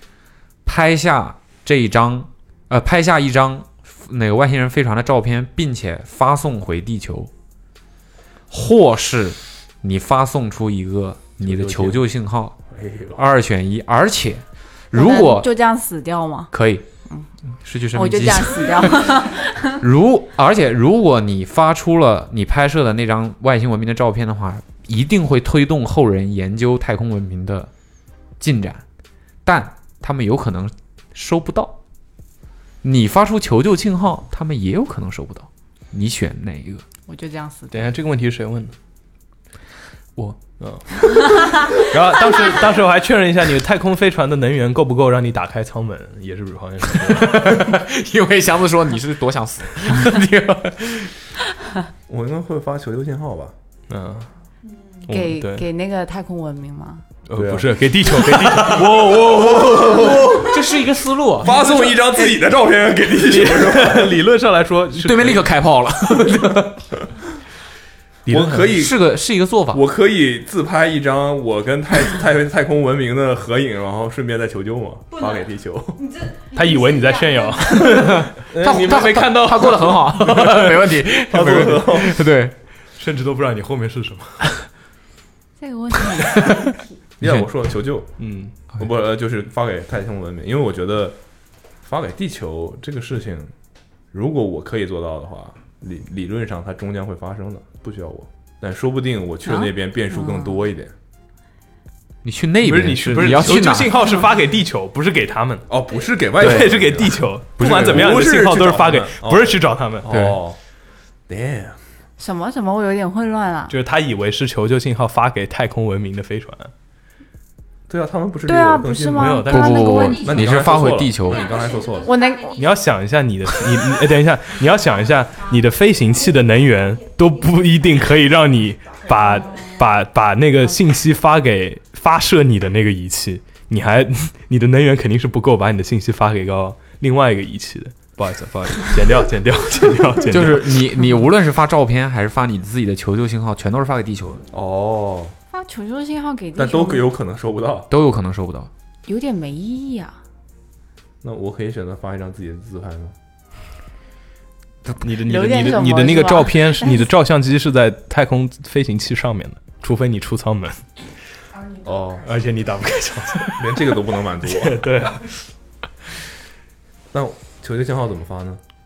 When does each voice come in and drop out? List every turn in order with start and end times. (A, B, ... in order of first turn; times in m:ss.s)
0:00.7-0:07.3 A
0:08.5-0:12.6 A
0:11.4-0:12.0 B
0:12.7-0:13.2 B
0:13.2-0:15.5 A
0:14.9-0:16.5 C
0:16.5-0:16.8 A
0:17.5-0:19.3 A
0:17.9-0:19.8 C
0:19.8-0:27.7 A
0:28.4-0:28.8 A
0:29.4-0:31.8 A
0:32.8-0:36.8 A
0:37.1-0:37.9 C
0:37.7-0:38.7 D
0:40.2-0:40.4 A
0:40.6-0:47.6 D
0:47.0-0:51.1 A
0:52.1-0:53.6 B
0:53.9-0:54.3 D
0:55.1-0:55.7 D
0:55.1-0:57.0 C
0:57.3-0:59.3 D
0:57.3-0:57.8 B
0:58.3-0:59.2 A
0:58.4-1:00.6 B
0:59.8-1:01.5 A
1:01.4-1:04.2 B
1:01.4-1:02.4 D
1:03.2-1:05.5 D
1:05.0-1:06.8 A
1:08.3-1:08.7 D
1:08.3-1:09.1 B
1:08.7-1:09.8 A
1:09.7-1:16.0 B
1:16.1-1:18.0 E
1:16.5-1:21.7 D
1:17.9-1:22.5 A
1:21.3-1:22.2 B
1:23.0-1:24.4 D
1:25.6-1:26.9 C
1:26.2-1:26.6 A
1:27.2-1:28.1 B
1:27.2-1:27.5 A
1:28.2-1:28.6 D
1:28.8-1:31.2 B
1:31.8-1:33.5 B
1:34.1-1:40.9 B
1:39.5-1:40.6 C
1:42.2-1:44.2 A
1:42.6-1:45.7 D
1:45.7-1:50.6 B
1:46.4-1:50.2 D
1:47.6-1:47.9 A
1:50.1-1:50.4 A
1:51.3-1:51.8 B
1:52.2-1:53.8 C
1:53.7-1:56.7 D
1:57.9-1:59.4 B
1:58.5-2:00.4 C
1:59.1-2:00.5 D
1:59.5-2:01.5 A
2:00.2-2:02.2 B
2:01.5-2:02.5 E
2:02.0-2:02.6 C
2:02.6-2:20.8 D
2:20.3-2:24.4 A
2:24.5-2:25.4 B
2:25.5-2:27.1 C
2:26.6-2:27.9 B
2:27.9-2:28.7 A
2:29.1-2:30.2 C
2:31.2-2:33.2 B
2:35.0-2:40.8 D
2:35.3-2:37.1 C
2:41.8-2:42.3 B
2:42.2-2:45.3 D
2:43.6-2:44.9 B
2:47.1-2:48.6 B